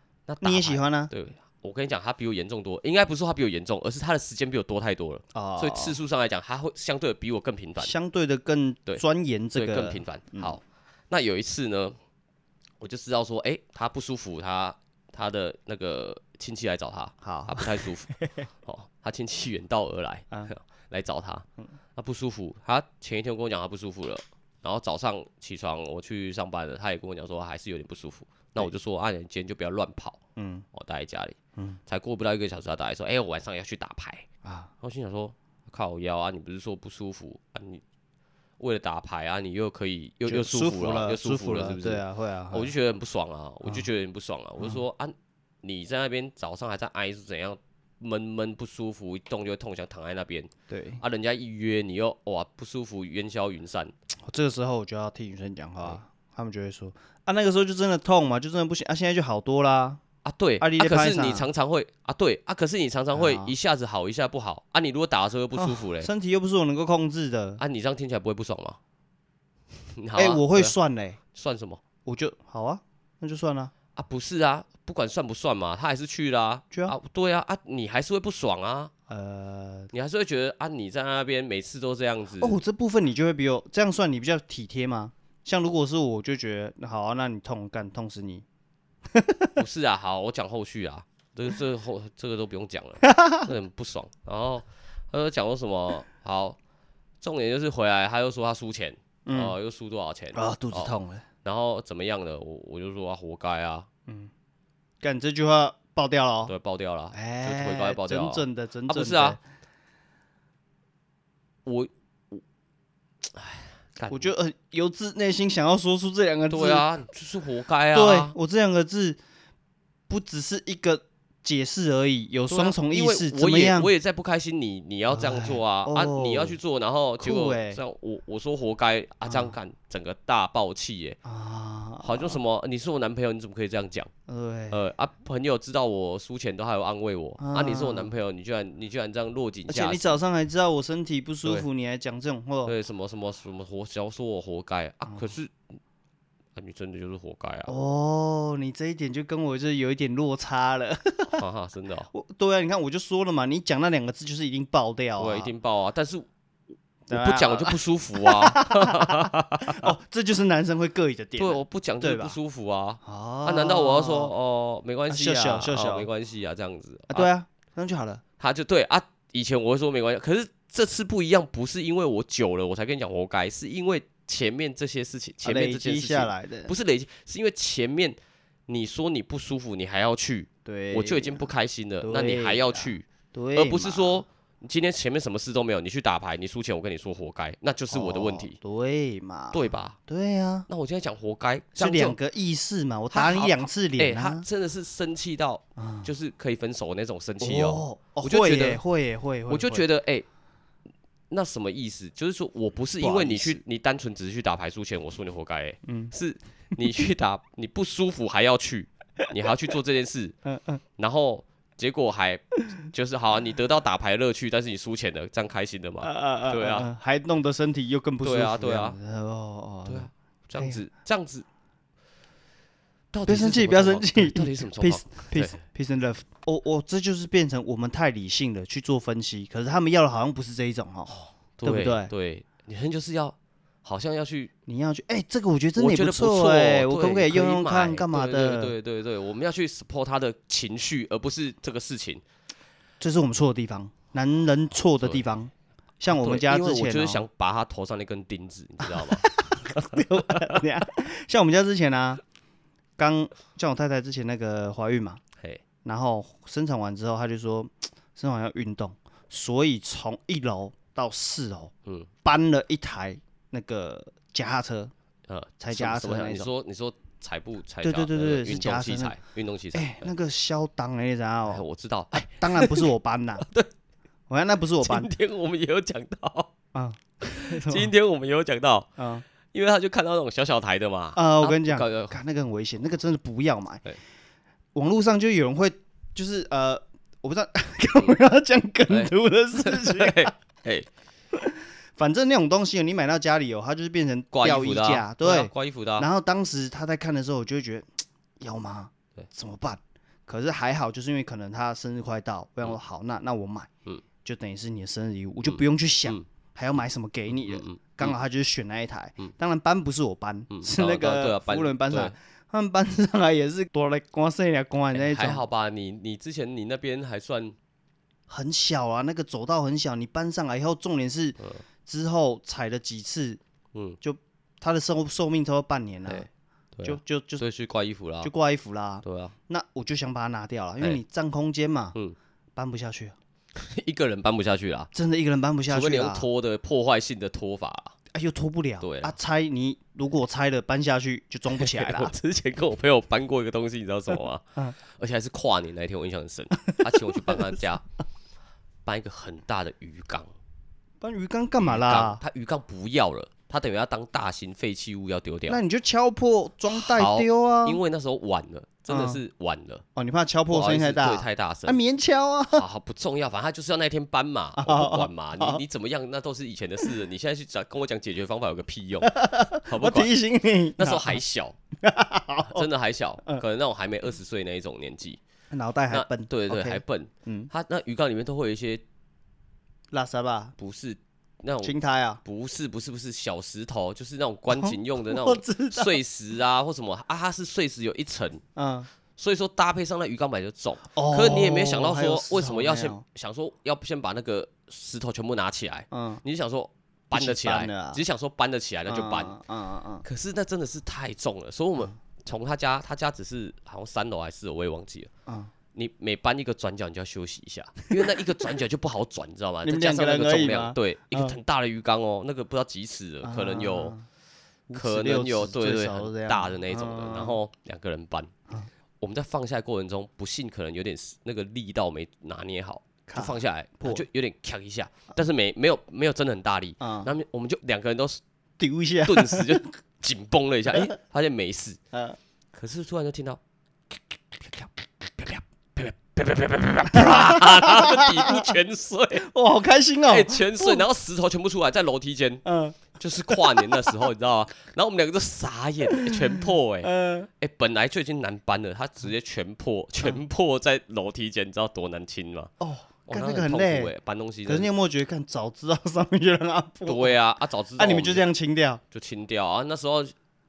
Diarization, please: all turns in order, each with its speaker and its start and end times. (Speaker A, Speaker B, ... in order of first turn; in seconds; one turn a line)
Speaker A: 0.3-7.9
Speaker B: 0.4-1.1
Speaker B: 5.3-6.0
Speaker B: 7.8-10.6
Speaker A: 9.6-11.9
Speaker A: 12.8-18.1
Speaker B: 17.2-18.5
Speaker A: 18.6-30.2
Speaker B: 30.4-30.6
Speaker A: 30.7-34.3
Speaker B: 34.4-34.7
Speaker A: 34.8-37.8
Speaker A: 38.6-53.9
Speaker B: 40.3-42.7
Speaker B: 50.7-51.0
Speaker B: 54.3-60.0
Speaker A: 60.2-66.1
Speaker B: 60.6-61.5
Speaker B: 63.1-63.5
Speaker B: 65.5-67.6
Speaker A: 67.6-68.8
Speaker A: 69.9-70.8
Speaker B: 70.2-71.2
Speaker A: 71.3-71.8
Speaker B: 72.0-73.7
Speaker A: 73.9-78.9
Speaker B: 79.1-79.9
Speaker A: 79.9-82.6
Speaker B: 82.4-88.4
Speaker B: 89.1-89.6
Speaker A: 89.5-96.6
Speaker B: 93.0-93.5
Speaker A: 97.2-103.9
Speaker B: 99.3-99.5
Speaker B: 100.3-101.2
Speaker B: 105.0-106.5
Speaker A: 106.5-109.4
Speaker B: 107.1-109.4
Speaker A: 111.6-112.4
Speaker A: 113.2-114.3
Speaker B: 114.1-116.9
Speaker A: 116.5-118.3
Speaker B: 117.9-119.2
Speaker B: 120.1-123.9
Speaker A: 122.5-131.2
Speaker B: 125.1-126.6
Speaker B: 127.2-127.8
Speaker B: 129.2-129.6
Speaker B: 131.2-132.4
Speaker A: 132.0-134.1
Speaker B: 134.3-134.8
Speaker A: 134.7-140.1
Speaker B: 137.4-138.1
Speaker B: 139.7-142.7
Speaker A: 142.7-145.5
Speaker A: 146.6-147.7
Speaker B: 147.7-151.4
Speaker A: 151.3-152.1
Speaker B: 152.1-155.5
Speaker A: 155.2-156.3
Speaker B: 157.1-162.4
Speaker A: 157.1-159.9
Speaker A: 161.4-167.3
Speaker B: 163.0-164.3
Speaker B: 165.1-166.1
Speaker B: 167.1-168.2
Speaker A: 168.4-188.6
Speaker B: 175.4-176.7
Speaker B: 180.6-181.5
Speaker B: 182.0-184.2
Speaker B: 187.9-190.7
Speaker A: 189.5-190.0
Speaker A: 190.7-192.2
Speaker B: 191.7-194.4
Speaker A: 193.1-198.8
Speaker B: 195.8-196.1
Speaker B: 197.4-199.8
Speaker A: 199.5-200.3
Speaker A: 201.3-210.4
Speaker B: 203.0-203.6
Speaker B: 205.9-206.1
Speaker B: 210.4-210.8
Speaker A: 211.0-216.9
Speaker B: 216.0-220.8
Speaker A: 218.2-219.0
Speaker A: 219.9-221.4
Speaker A: 223.1-225.6
Speaker B: 223.3-232.1
Speaker A: 231.1-234.5
Speaker B: 234.7-238.7
Speaker A: 235.8-242.2
Speaker B: 243.0-247.2
Speaker A: 246.1-250.6
Speaker B: 248.9-252.2
Speaker B: 253.0-255.2
Speaker B: 255.8-261.7
Speaker B: 262.2-264.9
Speaker A: 265.3-270.1
Speaker B: 265.6-266.5
Speaker B: 267.8-269.2
Speaker B: 269.7-273.4
Speaker A: 271.5-272.9
Speaker A: 273.4-273.7
Speaker B: 274.3-275.1
Speaker A: 274.8-276.5
Speaker B: 276.7-277.9
Speaker A: 277.2-279.0
Speaker B: 279.0-279.2
Speaker A: 279.5-282.1
Speaker B: 281.1-283.8
Speaker B: 284.7-290.3
Speaker A: 288.9-290.9
Speaker B: 291.3-303.7
Speaker A: 294.3-296.1
Speaker B: 304.2-315.4
Speaker A: 305.4-306.2
Speaker A: 307.3-308.2
Speaker A: 310.5-312.1
Speaker A: 314.9-317.6
Speaker B: 318.3-323.4
Speaker A: 323.7-324.0
Speaker B: 324.0-326.3
Speaker A: 326.1-328.3
Speaker B: 326.8-327.4
Speaker B: 328.2-331.9
Speaker A: 329.0-329.3
Speaker B: 332.6-333.1
Speaker A: 333.6-334.9
Speaker B: 334.9-336.3
Speaker A: 335.7-337.9
Speaker B: 338.1-342.1
Speaker A: 338.8-339.1
Speaker A: 341.5-347.8
Speaker B: 346.6-347.4
Speaker A: 348.8-350.3
Speaker B: 351.0-352.2
Speaker A: 351.6-355.6
Speaker B: 355.5-357.8
Speaker A: 356.7-359.8
Speaker B: 358.9-359.2
Speaker B: 359.9-362.6
Speaker A: 360.5-361.8
Speaker A: 362.5-370.1
Speaker B: 364.6-365.6
Speaker B: 369.0-371.2
Speaker A: 370.8-371.6
Speaker B: 371.8-372.7
Speaker A: 372.4-375.2
Speaker B: 375.5-377.5
Speaker A: 375.9-378.8
Speaker B: 379.9-380.6
Speaker A: 380.6-388.4
Speaker B: 381.6-382.2
Speaker B: 384.5-386.0
Speaker B: 388.6-388.9
Speaker A: 389.1-399.4
Speaker B: 390.9-393.0
Speaker B: 395.9-396.2
Speaker B: 397.1-398.0
Speaker B: 398.9-400.1
Speaker A: 400.0-405.1
Speaker B: 405.3-405.5
Speaker A: 405.7-413.9
Speaker B: 409.6-411.4
Speaker B: 413.2-414.1
Speaker B: 414.7-417.4
Speaker A: 414.7-418.3
Speaker A: 419.0-428.2
Speaker B: 423.1-424.1
Speaker B: 426.8-427.1
Speaker B: 428.6-429.7
Speaker A: 429.0-431.8
Speaker B: 431.9-432.2
Speaker A: 432.5-433.4
Speaker A: 435.2-439.3
Speaker B: 436.9-438.5
Speaker B: 439.2-440.8
Speaker A: 440.0-452.5
Speaker B: 442.4-444.0
Speaker B: 445.9-447.3
Speaker B: 452.6-453.9
Speaker A: 453.1-454.7
Speaker B: 454.4-457.1
Speaker A: 456.8-458.3
Speaker B: 457.8-458.8
Speaker A: 458.9-460.1